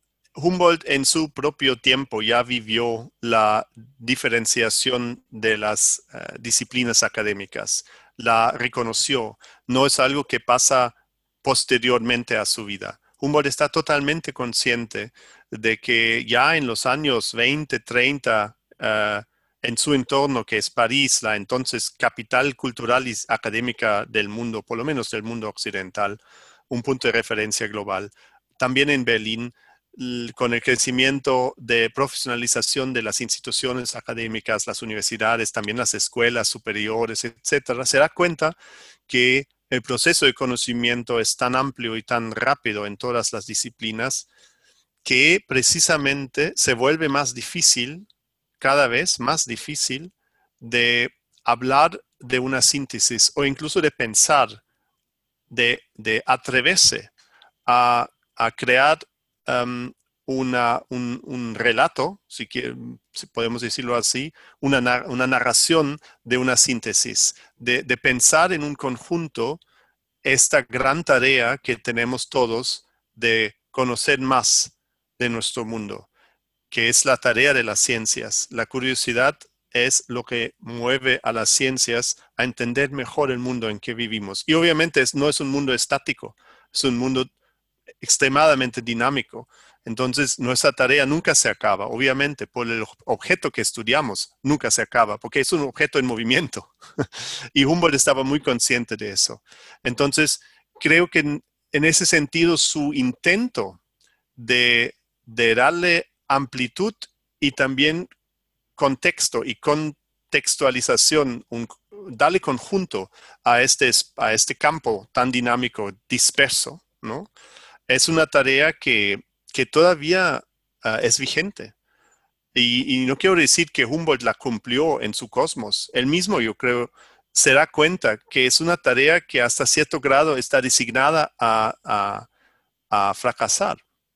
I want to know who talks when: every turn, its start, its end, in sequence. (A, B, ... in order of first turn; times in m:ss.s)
0:00.4-0:38.6 A
0:39.1-0:44.3 A
0:45.0-0:48.1 A
0:48.6-0:54.6 A
0:55.5-0:57.1 A
0:57.7-1:09.6 A
1:10.2-1:16.1 A
1:16.7-1:27.3 A
1:28.0-1:43.8 A
1:44.4-1:48.1 A
1:48.8-1:57.3 A
1:57.9-2:01.7 A
2:02.5-2:12.3 A
2:12.9-2:13.8 A